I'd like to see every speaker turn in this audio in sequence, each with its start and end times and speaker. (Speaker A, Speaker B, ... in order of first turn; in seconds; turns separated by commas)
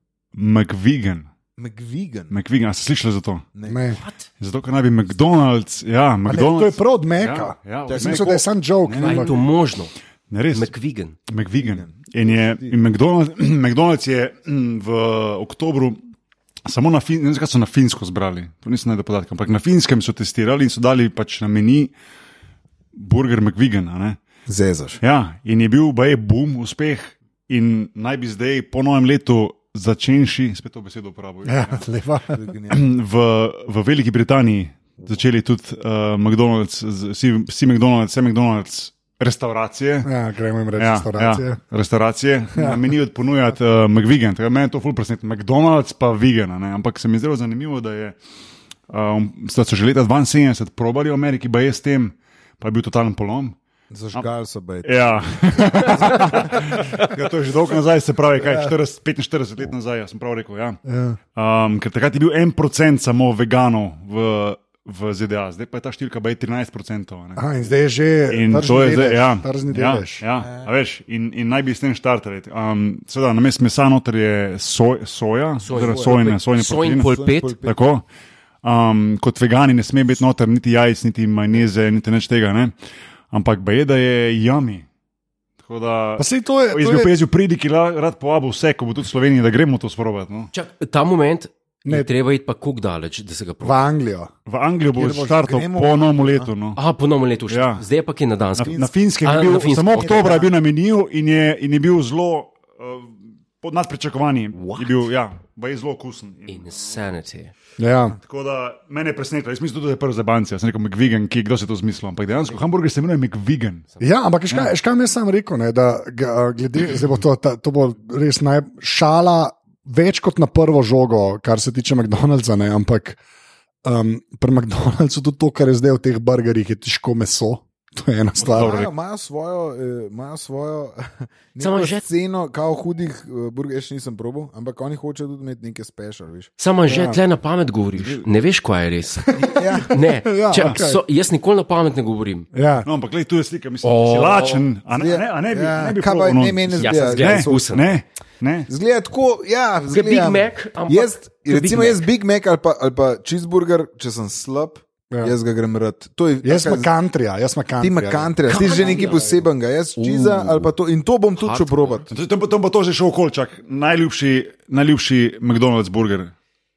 Speaker A: 0.3-1.3, Speaker B: 1.6-2.3, Speaker A: 2.3-3.5, Speaker C: 3.7-4.0, Speaker D: 3.9-4.2, Speaker A: 4.4-9.4, Speaker C: 6.3-9.4, Speaker B: 7.9-8.4, Speaker D: 9.0-9.9, Speaker A: 10.3-10.7, Speaker D: 10.5-11.2, Speaker A: 11.3-16.0, Speaker B: 11.6-12.8, Speaker A: 16.6-21.9, Speaker A: 22.9-24.2, Speaker B: 24.5-25.0, Speaker A: 25.0-31.8, Speaker C: 31.4-32.4, Speaker B: 32.3-32.8, Speaker A: 32.7-40.1, Speaker C: 40.0-41.6, Speaker A: 40.8-48.1, Speaker C: 42.5-42.8, Speaker A: 48.9-53.5, Speaker B: 53.9-56.5, Speaker A: 54.8-60.8, Speaker C: 58.4-58.7, Speaker C: 60.9-61.2, Speaker A: 61.3-67.4, Speaker C: 67.4-70.2, Speaker A: 68.3-78.0, Speaker D: 75.6-77.5, Speaker B: 75.7-76.3, Speaker B: 76.9-77.8, Speaker A: 78.6-82.7, Speaker A: 83.3-84.8, Speaker A: 85.6-90.5, Speaker C: 86.2-87.1, Speaker D: 90.5-93.8, Speaker C: 91.8-92.1, Speaker C: 93.6-94.3, Speaker A: 94.5-96.8, Speaker C: 95.0-95.4, Speaker B: 95.0-96.5, Speaker D: 96.8-100.5, Speaker A: 97.5-97.8, Speaker A: 98.6-107.0, Speaker B: 98.6-98.9, Speaker B: 99.5-100.5, Speaker D: 104.6-104.9, Speaker D: 106.5-107.5, Speaker C: 107.8-108.2, Speaker A: 108.2-113.9, Speaker C: 114.0-123.2, Speaker C: 123.8-128.8, Speaker A: 128.4-128.9, Speaker B: 128.4-136.5, Speaker D: 131.6-132.0, Speaker D: 136.6-142.5, Speaker C: 136.9-137.2, Speaker C: 139.3-141.0, Speaker B: 139.5-139.9, Speaker C: 142.5-142.9, Speaker A: 142.8-148.7, Speaker D: 143.8-144.6, Speaker B: 144.9-147.9, Speaker D: 146.8-147.9, Speaker B: 148.7-156.9, Speaker D: 149.9-152.0, Speaker C: 156.4-158.3, Speaker B: 157.8-162.1, Speaker D: 158.5-159.4, Speaker D: 160.0-160.7, Speaker D: 161.4-162.0, Speaker A: 162.1-166.3